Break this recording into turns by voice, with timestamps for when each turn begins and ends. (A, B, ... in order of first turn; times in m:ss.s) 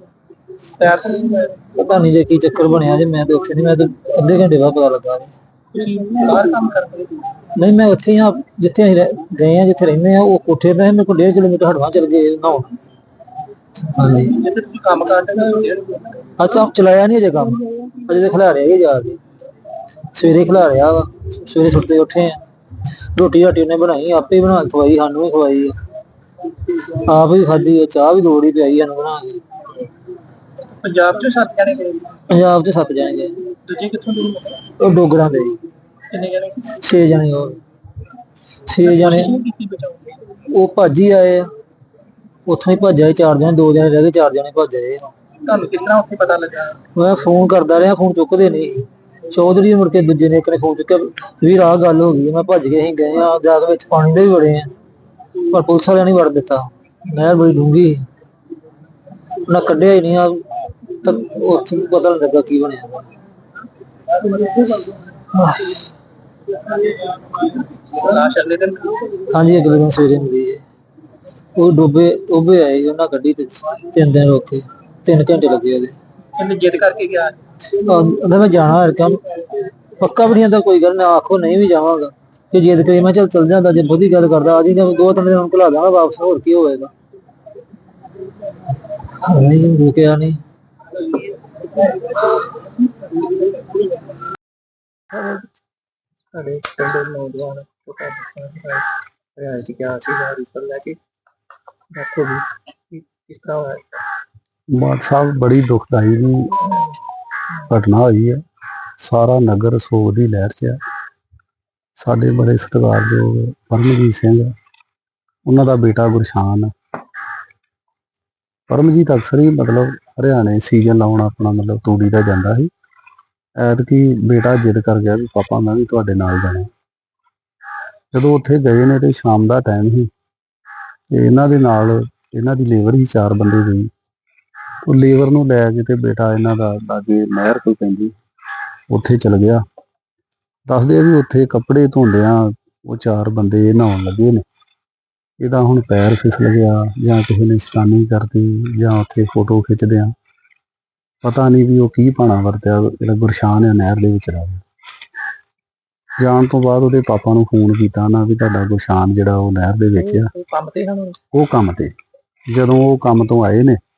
0:00.8-0:01.6 A
0:01.7-0:05.3 B
0:05.7-0:07.2 A
0:07.6-0:12.7 B
0:13.9-0:14.4 B
0:14.4-0:16.1 A
0:16.4-0:19.2 B
0:20.1-0:22.4 B
0:23.1-0:25.7 B
0:27.0-0:29.4 B
0:30.8-0:32.2 A
0:32.3-0:33.4 B
0:33.7-0:34.6 A
0:34.6-0:35.6 B
0:36.1-0:36.6 A
0:36.6-0:37.6 B
0:38.7-0:39.4 B
0:38.8-0:40.2 A
0:40.5-0:41.5 B
0:42.5-0:45.1 B
0:45.4-0:46.7 A
0:46.9-0:54.7 B
0:55.5-0:58.0 B
0:59.5-1:00.4 B
1:00.9-1:03.1 B
1:04.3-1:05.8 B
1:07.6-1:09.1 A
1:09.3-1:10.6 B
1:11.6-1:16.0 B
1:16.4-1:17.4 A
1:17.8-1:26.9 B
1:29.2-1:30.4 B
1:35.1-1:35.4 A
1:36.3-1:38.8 A
1:39.4-1:41.0 A
1:41.9-1:44.0 A
1:44.7-1:46.6 C
1:47.7-1:48.4 C
1:49.0-1:50.8 C
1:52.0-1:54.5 C
1:55.4-1:56.7 C
1:58.7-2:02.7 C
2:03.6-2:06.7 C
2:08.1-2:10.1 C
2:11.1-2:13.9 C
2:14.8-2:18.1 C
2:18.9-2:19.6 C
2:20.7-2:24.4 C
2:25.4-2:30.1 C
2:31.2-2:34.6 C
2:36.2-2:40.3 C
2:40.2-2:41.2 A
2:41.3-2:41.9 C
2:42.5-2:43.8 C